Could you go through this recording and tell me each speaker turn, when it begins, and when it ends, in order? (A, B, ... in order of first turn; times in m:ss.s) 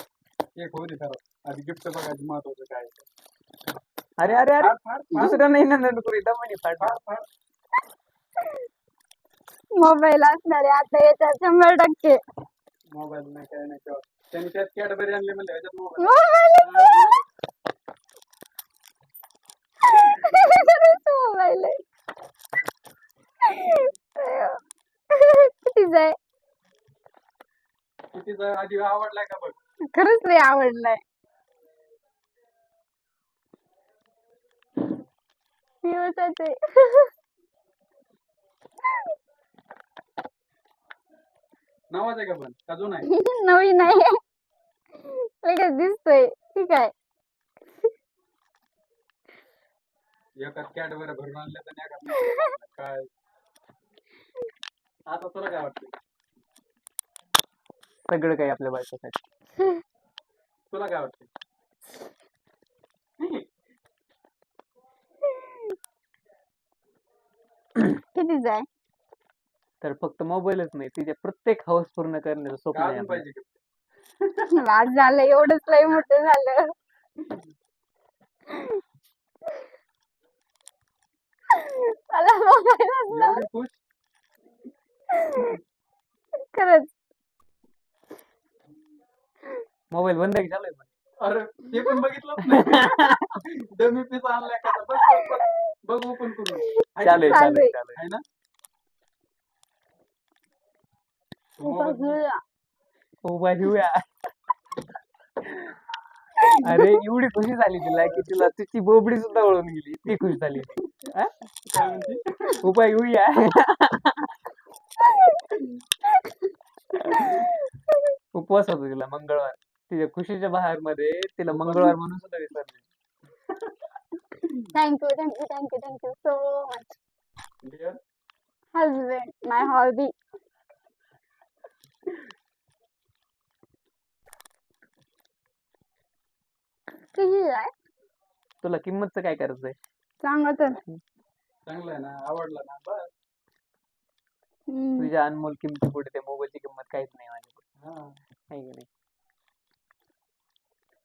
0:00.6-0:03.1 A
0:04.2-0:07.0 B
0:04.2-0:05.4 A
0:06.8-0:07.3 A
0:09.8-0:12.2 C
0:12.9-0:17.2 A
0:16.0-0:17.2 C
0:19.9-0:21.8 C
0:23.5-0:24.6 C
0:25.1-0:26.2 C
0:28.1-0:29.6 A
0:29.9-0:31.0 C
0:35.8-0:37.1 C
0:41.9-0:43.1 A
0:43.1-0:44.2 C
0:45.1-0:46.9 C
0:50.4-0:53.1 A
0:52.2-0:52.4 C
0:55.1-0:55.9 A
0:58.1-0:59.2 B
1:00.7-1:01.3 A
1:08.1-1:08.7 C
1:09.8-1:13.2 B
1:12.7-1:13.6 A
1:14.5-1:16.6 C
1:21.6-1:23.5 C
1:23.1-1:23.8 A
1:25.2-1:25.5 C
1:26.5-1:27.0 C
1:29.9-1:30.9 B
1:31.2-1:38.2 A
1:31.7-1:32.0 C
1:32.4-1:33.3 B
1:35.0-1:35.6 C
1:36.8-1:37.8 C
1:37.0-1:38.0 B
1:41.6-1:42.2 A
1:41.6-1:42.4 C
1:43.2-1:44.0 B
1:45.4-1:45.8 B
1:46.4-1:47.0 C
1:46.6-1:51.3 B
1:51.7-1:52.7 A
1:51.8-1:52.0 C
1:52.6-1:54.4 B
1:55.0-1:55.7 C
1:57.1-1:57.9 C
1:58.3-2:02.8 B
2:01.5-2:02.0 A
2:04.7-2:07.0 C
2:07.6-2:08.0 A
2:08.8-2:10.1 C
2:17.1-2:17.7 C
2:18.6-2:19.8 B
2:20.2-2:20.8 C
2:21.7-2:23.1 A
2:24.7-2:25.1 C
2:25.0-2:27.6 B
2:27.8-2:28.2 A
2:28.5-2:28.9 B